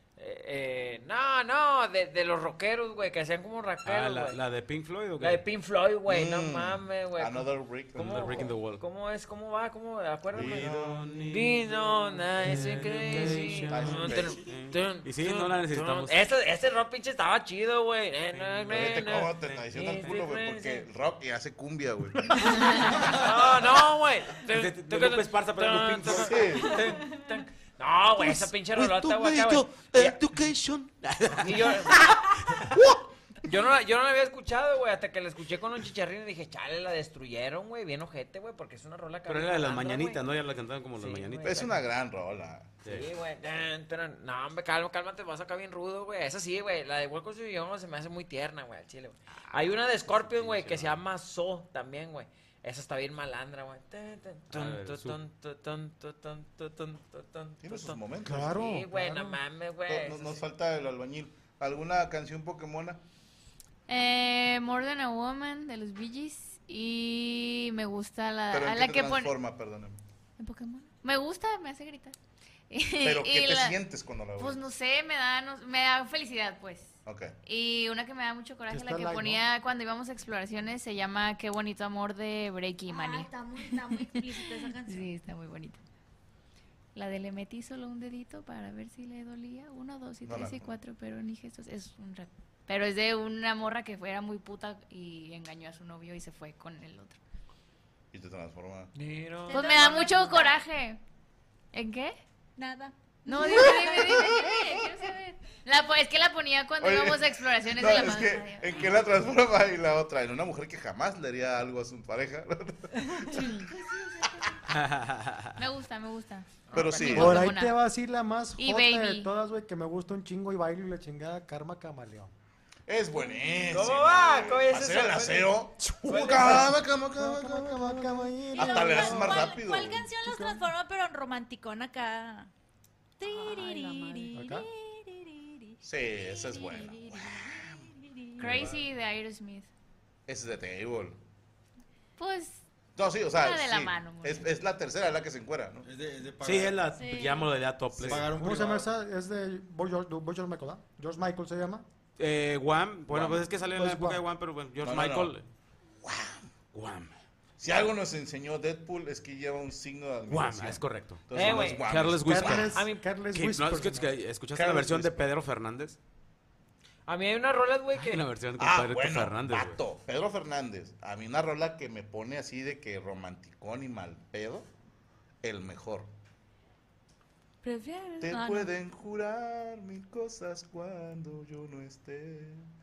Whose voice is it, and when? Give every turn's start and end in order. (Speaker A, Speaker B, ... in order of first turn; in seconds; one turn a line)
Speaker A: 0.2-4.4
Speaker B: 3.8-5.4
Speaker A: 5.2-10.8
Speaker C: 6.1-8.5
Speaker B: 8.0-8.8
Speaker C: 10.3-11.2
Speaker B: 10.3-16.2
Speaker A: 11.3-20.9
Speaker C: 13.7-14.4
Speaker B: 18.3-20.2
Speaker C: 18.7-22.9
Speaker A: 22.6-30.4
Speaker B: 24.5-26.4
Speaker C: 26.1-26.9
Speaker B: 28.2-33.0
Speaker A: 31.4-32.2
Speaker A: 33.4-40.2
Speaker B: 39.3-41.7
Speaker A: 41.0-41.8
Speaker C: 41.4-42.8
Speaker B: 42.8-43.1
Speaker A: 42.9-60.4
Speaker B: 50.0-51.0
Speaker B: 54.5-55.2
Speaker C: 57.6-58.6
Speaker D: 58.2-59.4
Speaker C: 59.9-63.0
Speaker E: 63.9-69.3
Speaker C: 68.5-70.0
Speaker E: 70.4-72.2
Speaker E: 72.7-73.8
Speaker C: 73.0-74.7
Speaker E: 74.4-83.3
Speaker C: 77.1-77.3
Speaker D: 78.7-79.4
Speaker F: 82.9-85.1
Speaker E: 84.2-85.8
Speaker E: 87.0-97.2
Speaker C: 90.2-90.8
Speaker C: 98.1-98.9
Speaker A: 99.0-100.1
Speaker F: 99.5-100.6
Speaker E: 99.5-101.0
Speaker E: 101.7-102.2
Speaker F: 102.6-105.3
Speaker E: 103.3-108.9
Speaker C: 103.5-105.0
Speaker C: 106.8-113.6
Speaker B: 114.7-115.6
Speaker E: 115.6-117.8
Speaker A: 116.7-117.2
Speaker C: 116.7-117.5
Speaker D: 117.1-122.3
Speaker E: 118.6-119.3
Speaker C: 122.9-130.1
Speaker A: 123.7-126.7
Speaker D: 126.1-129.5
Speaker F: 128.6-132.5
Speaker D: 130.2-130.7
Speaker F: 133.2-138.6
Speaker G: 133.2-134.4
Speaker D: 134.3-134.7
Speaker C: 135.8-137.9
Speaker E: 138.4-139.7
Speaker C: 138.4-138.7
Speaker C: 140.3-141.2
Speaker E: 142.2-142.6
Speaker C: 143.0-145.9
Speaker E: 143.3-144.5
Speaker H: 145.8-146.9
Speaker B: 146.4-148.2
Speaker F: 146.9-147.5
Speaker C: 147.9-148.2
Speaker H: 148.0-148.9
Speaker D: 148.3-151.8
Speaker B: 152.2-155.4
Speaker C: 153.1-153.5
Speaker D: 153.7-154.2
Speaker C: 154.8-155.3
Speaker C: 156.0-156.5
Speaker B: 156.7-157.1
Speaker C: 157.6-162.6
Speaker B: 160.3-166.0
Speaker A: 161.3-161.8
Speaker D: 162.2-164.2
Speaker A: 162.6-163.0
Speaker C: 164.5-165.3
Speaker A: 167.1-168.2
Speaker B: 168.0-169.8
Speaker C: 168.6-174.7
Speaker C: 175.4-176.1
Speaker G: 177.6-178.7
Speaker C: 178.2-182.7